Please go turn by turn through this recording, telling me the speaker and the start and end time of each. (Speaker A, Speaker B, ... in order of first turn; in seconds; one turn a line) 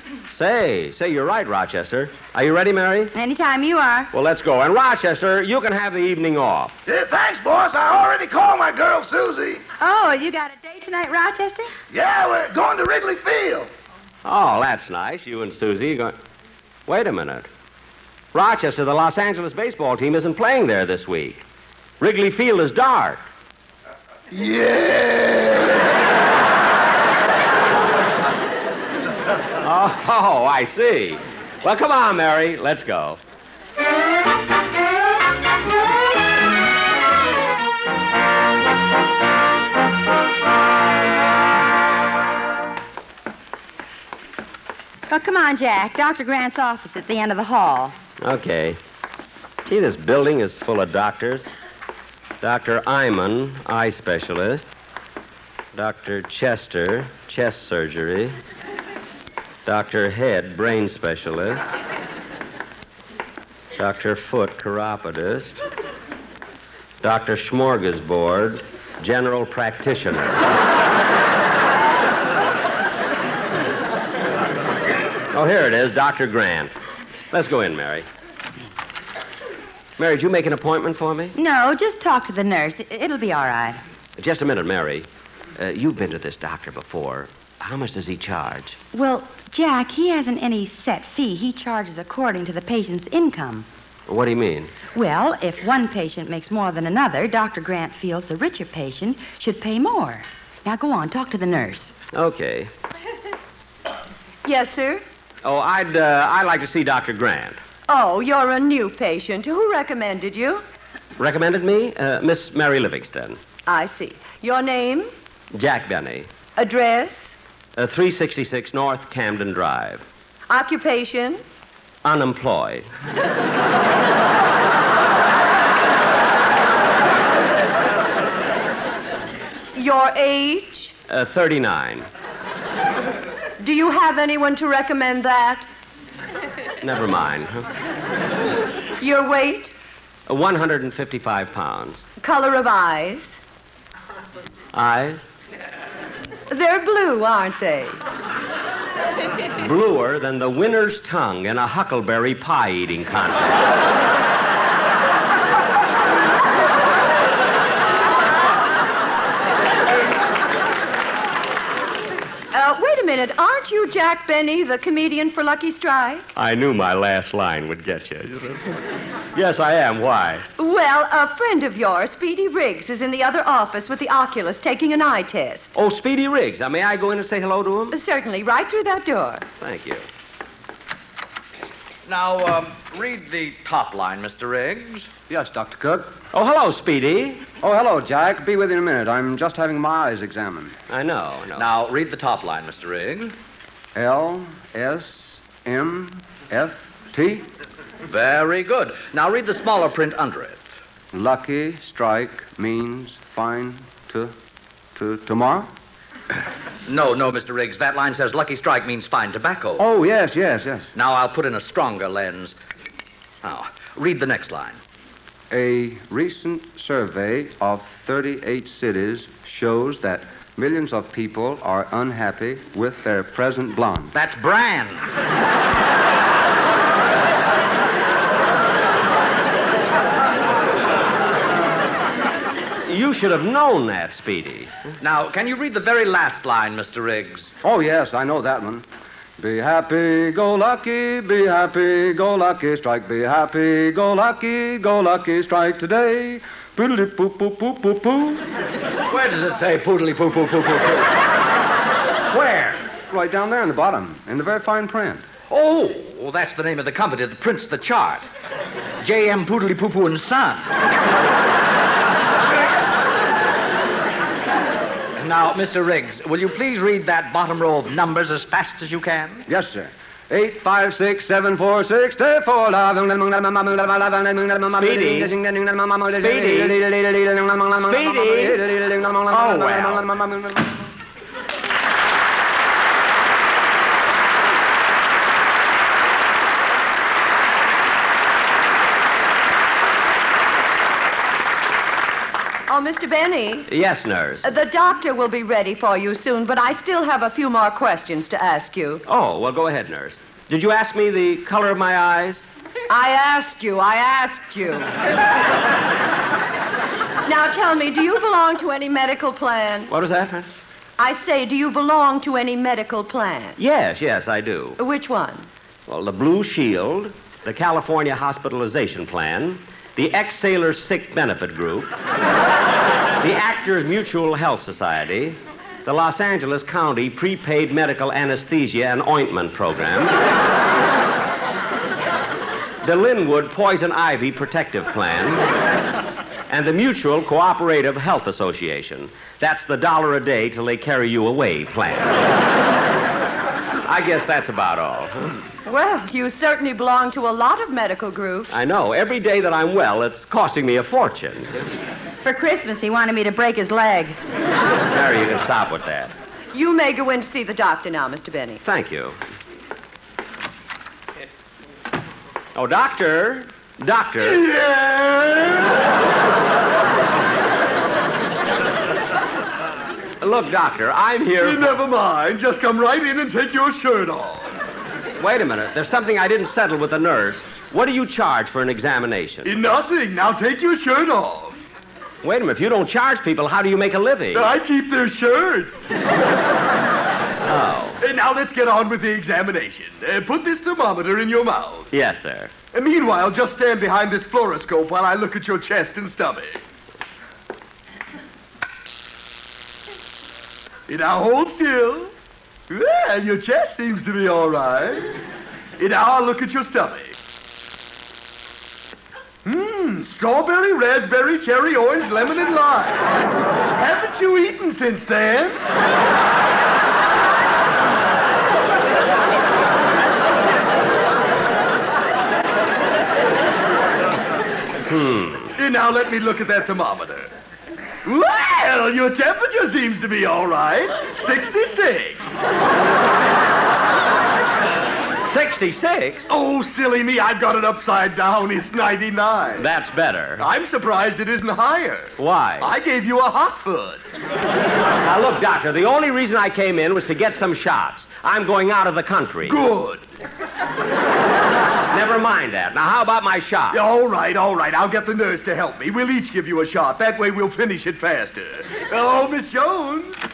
Speaker A: 0.3-3.1
Speaker B: 3.1-4.1
Speaker A: 4.1-6.8
Speaker C: 6.9-9.6
Speaker B: 9.8-11.7
Speaker C: 11.9-13.7
Speaker A: 14.2-16.2
Speaker A: 16.9-17.5
Speaker A: 18.3-21.4
Speaker A: 22.0-23.3
Speaker C: 24.3-25.8
Speaker A: 29.6-33.2
Speaker B: 45.1-48.0
Speaker A: 48.2-48.8
Speaker A: 49.7-51.5
Speaker A: 52.4-54.7
Speaker A: 55.7-58.4
Speaker A: 59.7-61.6
Speaker A: 63.8-65.6
Speaker A: 67.0-70.5
Speaker A: 75.3-76.7
Speaker A: 77.3-78.1
Speaker A: 80.0-81.3
Speaker B: 81.3-83.8
Speaker A: 84.2-88.8
Speaker B: 88.9-93.7
Speaker A: 94.1-94.7
Speaker B: 94.9-101.9
Speaker A: 102.1-102.7
Speaker D: 104.5-105.0
Speaker A: 105.4-107.6
Speaker D: 107.9-110.6
Speaker A: 111.2-113.4
Speaker D: 113.7-115.1
Speaker A: 115.5-116.3
Speaker D: 116.6-117.3
Speaker A: 117.8-120.0
Speaker D: 120.5-121.4
Speaker A: 122.0-122.9
Speaker D: 129.8-130.9
Speaker A: 131.1-132.1
Speaker D: 133.6-135.7
Speaker A: 136.8-137.7
Speaker D: 139.0-139.7
Speaker A: 140.3-142.0
Speaker D: 142.2-143.3
Speaker A: 144.7-145.2
Speaker D: 146.5-148.0
Speaker A: 149.6-153.7
Speaker D: 162.5-166.3
Speaker A: 166.3-168.7
Speaker A: 169.3-170.5
Speaker D: 170.6-175.7
Speaker A: 175.8-178.0
Speaker D: 177.9-179.4
Speaker A: 179.6-180.1
Speaker E: 182.1-185.1
Speaker F: 185.3-186.2
Speaker A: 186.3-187.4
Speaker F: 187.6-190.8
Speaker A: 190.9-191.7
Speaker E: 191.6-193.3
Speaker F: 193.9-197.5
Speaker E: 198.1-200.6
Speaker F: 201.1-204.3
Speaker F: 204.9-205.7
Speaker E: 206.9-209.9
Speaker F: 209.8-210.9
Speaker E: 210.9-212.6
Speaker E: 213.4-214.8
Speaker F: 215.5-224.1
Speaker E: 224.1-225.1
Speaker A: 232.9-234.7
Speaker E: 235.0-237.5
Speaker F: 237.6-238.9
Speaker F: 239.4-248.4
Speaker E: 249.1-251.2
Speaker E: 252.3-252.8
Speaker F: 253.1-255.3
Speaker E: 255.5-258.3
Speaker E: 259.0-260.7
Speaker E: 265.2-269.4
Speaker F: 269.5-280.7
Speaker A: 274.7-275.4
Speaker A: 276.1-276.8
Speaker A: 277.8-278.6
Speaker A: 279.3-280.1
Speaker D: 292.7-293.7
Speaker A: 293.7-294.5
Speaker D: 294.4-299.0
Speaker A: 299.1-302.4
Speaker D: 302.9-305.0
Speaker D: 307.3-309.9
Speaker A: 309.9-310.5
Speaker D: 311.0-313.6
Speaker A: 313.6-314.8
Speaker D: 314.8-315.5
Speaker A: 315.9-321.9
Speaker A: 323.2-330.2
Speaker A: 332.8-335.5
Speaker A: 336.5-342.2
Speaker A: 343.9-345.5
Speaker D: 345.6-348.5
Speaker A: 348.5-351.7
Speaker B: 352.2-354.2
Speaker A: 354.9-356.1
Speaker D: 356.5-358.6
Speaker A: 358.6-359.2
Speaker A: 362.6-364.5
Speaker G: 364.2-365.7
Speaker A: 370.2-371.8
Speaker G: 371.4-374.5
Speaker A: 375.2-379.6
Speaker G: 379.4-381.5
Speaker A: 382.2-384.5
Speaker G: 384.3-385.9
Speaker A: 387.4-388.0
Speaker G: 388.0-391.9
Speaker A: 391.9-392.5
Speaker G: 392.7-396.6
Speaker G: 400.9-402.1
Speaker G: 402.7-405.2
Speaker G: 405.8-407.1
Speaker G: 409.4-413.1
Speaker G: 413.8-415.6
Speaker A: 424.9-425.6
Speaker G: 425.6-427.3
Speaker G: 428.1-432.4
Speaker A: 435.3-436.3
Speaker G: 436.3-439.7
Speaker A: 439.6-440.5
Speaker G: 440.4-444.0
Speaker A: 442.2-442.8
Speaker A: 445.0-449.6
Speaker G: 449.5-450.1
Speaker A: 451.9-453.8
Speaker G: 453.7-460.2